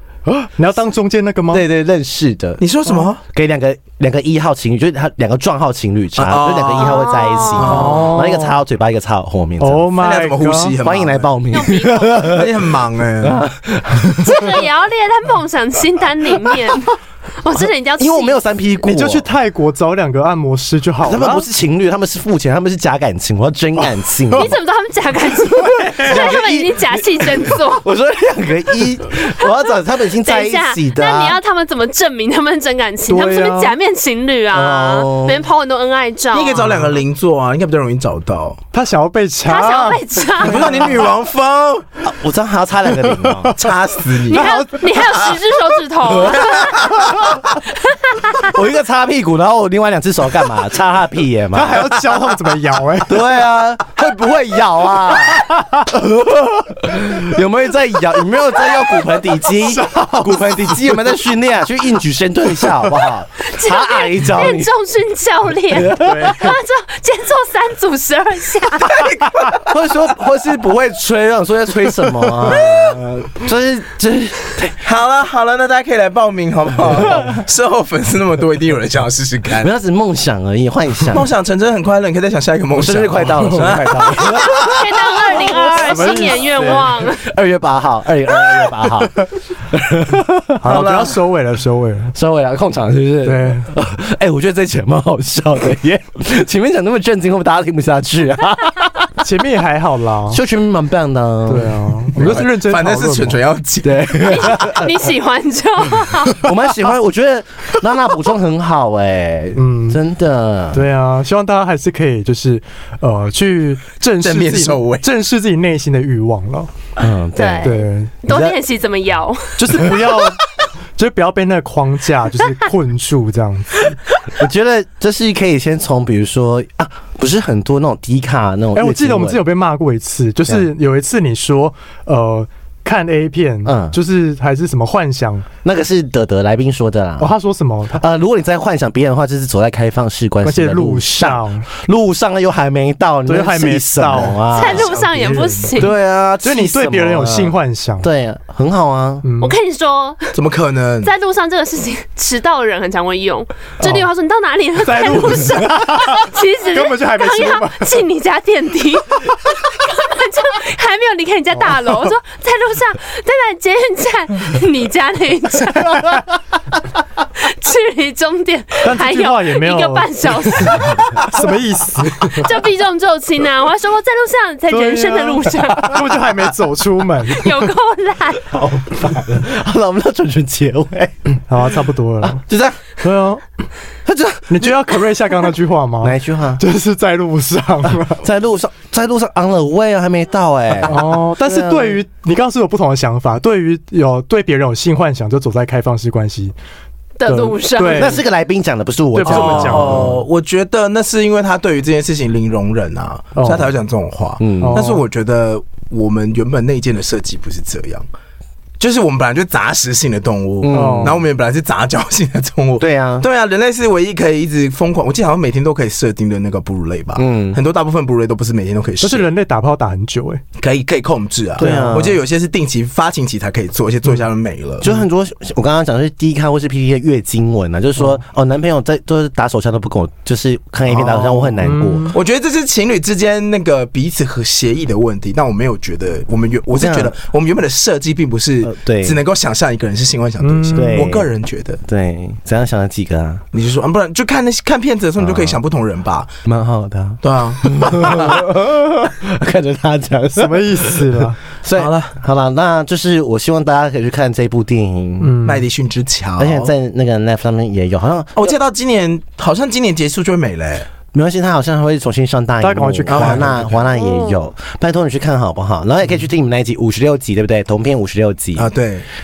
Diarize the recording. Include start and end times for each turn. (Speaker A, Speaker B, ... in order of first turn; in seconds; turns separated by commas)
Speaker A: 0.3-1.6, Speaker B: 1.5-10.0, Speaker C: 2.6-3.2, Speaker C: 6.2-8.1, Speaker D: 6.8-7.9, Speaker A: 7.7-8.6, Speaker A: 9.6-10.8, Speaker C: 10.0-11.3, Speaker B: 10.8-14.6, Speaker D: 11.5-12.3, Speaker C: 12.2-13.4, Speaker D: 14.2-16.9, Speaker D: 17.4-18.4, Speaker B: 17.5-19.3, Speaker A: 18.8-21.5, Speaker B: 21.0-24.6, Speaker D: 24.3-27.9, Speaker A: 25.6-26.3, Speaker B: 26.0-31.4, Speaker D: 29.4-36.9, Speaker A: 33.1-33.8, Speaker B: 34.5-35.5, Speaker C: 36.3-38.6, Speaker A: 38.7-41.0, Speaker D: 39.5-41.0, Speaker C: 40.4-41.9, Speaker B: 42.0-43.6, Speaker A: 42.9-45.1, Speaker C: 43.5-44.6, Speaker D: 44.3-47.2, Speaker C: 46.2-47.2, Speaker D: 47.7-48.5, Speaker B: 48.4-52.2, Speaker A: 51.5-53.2, Speaker B: 53.0-64.7, Speaker A: 55.4-55.9, Speaker A: 59.7-60.8, Speaker D: 63.4-69.0, Speaker B: 65.7-66.5, Speaker A: 66.0-66.5, Speaker C: 68.8-69.7, Speaker B: 69.5-74.9, Speaker A: 72.0-72.5, Speaker C: 72.5-72.9, Speaker C: 74.8-79.7, Speaker B: 77.0-77.3, Speaker B: 79.6-81.3, Speaker C: 81.1-85.1, Speaker B: 82.7-91.1, Speaker A: 83.4-83.8, Speaker D: 84.4-87.3, Speaker A: 85.6-86.9, Speaker A: 90.6-92.1, Speaker C: 90.7-91.1, Speaker B: 92.1-99.1, Speaker A: 93.2-93.7, Speaker A: 99.2-100.4, Speaker B: 100.3-102.4, Speaker A: 101.5-103.4, Speaker C: 102.2-104.6, Speaker B: 103.8-105.0, Speaker D: 104.2-106.5, Speaker B: 106.3-110.9, Speaker A: 109.5-110.0, Speaker A: 110.7-116.7, Speaker C: 114.2-115.1, Speaker B: 117.0-118.6, Speaker D: 117.4-119.6, Speaker A: 117.6-118.1, Speaker A: 119.6-120.4, Speaker A: 121.0-123.9, Speaker B: 124.3-129.4, Speaker A: 128.8-135.5, Speaker B: 133.7-134.0, Speaker B: 135.6-137.3, Speaker A: 137.2-138.0, Speaker B: 137.9-144.9, Speaker A: 140.4-141.7, Speaker A: 143.3-145.8, Speaker D: 144.5-145.9, Speaker B: 145.8-149.3, Speaker A: 146.4-148.1, Speaker A: 149.2-149.6, Speaker D: 149.4-150.4, Speaker C: 150.3-151.1, Speaker D: 151.0-166.2, Speaker A: 153.8-154.1, Speaker A: 154.8-158.0, Speaker A: 165.8-166.2, Speaker D: 167.4-171.3, Speaker A: 168.8-172.5, Speaker D: 172.2-176.0, Speaker A: 174.7-177.7, Speaker D: 177.3-178.5, Speaker B: 178.5-181.7, Speaker A: 181.5-182.4, Speaker B: 182.2-182.8, Speaker A: 183.0-183.4, Speaker B: 184.1-185.0, Speaker A: 184.5-188.2, Speaker B: 186.0-186.6, Speaker B: 188.2-192.0, Speaker A: 190.9-196.5, Speaker D: 197.2-198.2, Speaker A: 197.3-198.2, Speaker B: 197.9-200.3, Speaker A: 199.1-200.2, Speaker C: 199.2-208.1, Speaker A: 203.3-203.7, Speaker B: 204.4-204.8, Speaker A: 204.6-205.0, Speaker C: 208.8-219.3, Speaker B: 210.6-211.2, Speaker A: 210.7-211.2, Speaker B: 212.8-213.3, Speaker B: 217.2-217.6, Speaker A: 219.0-220.4, Speaker C: 220.6-225.0, Speaker A: 221.6-222.0, Speaker B: 221.6-222.2, Speaker B: 224.8-232.1, Speaker C: 230.9-241.8, Speaker A: 231.6-232.2, Speaker B: 236.7-237.2, Speaker B: 238.6-239.2, Speaker A: 240.4-241.1, Speaker B: 240.7-241.3, Speaker B: 241.8-243.4, Speaker C: 243.5-246.4, Speaker B: 245.2-245.6, Speaker B: 246.4-255.4, Speaker C: 247.2-248.5, Speaker A: 250.4-251.4, Speaker C: 251.7-252.1, Speaker A: 255.2-255.7, Speaker C: 255.4-256.7, Speaker B: 256.4-258.6, Speaker C: 258.4-260.9, Speaker B: 261.1-268.7, Speaker A: 262.6-263.6, Speaker C: 263.1-263.8, Speaker D: 263.9-264.5, Speaker C: 268.6-269.1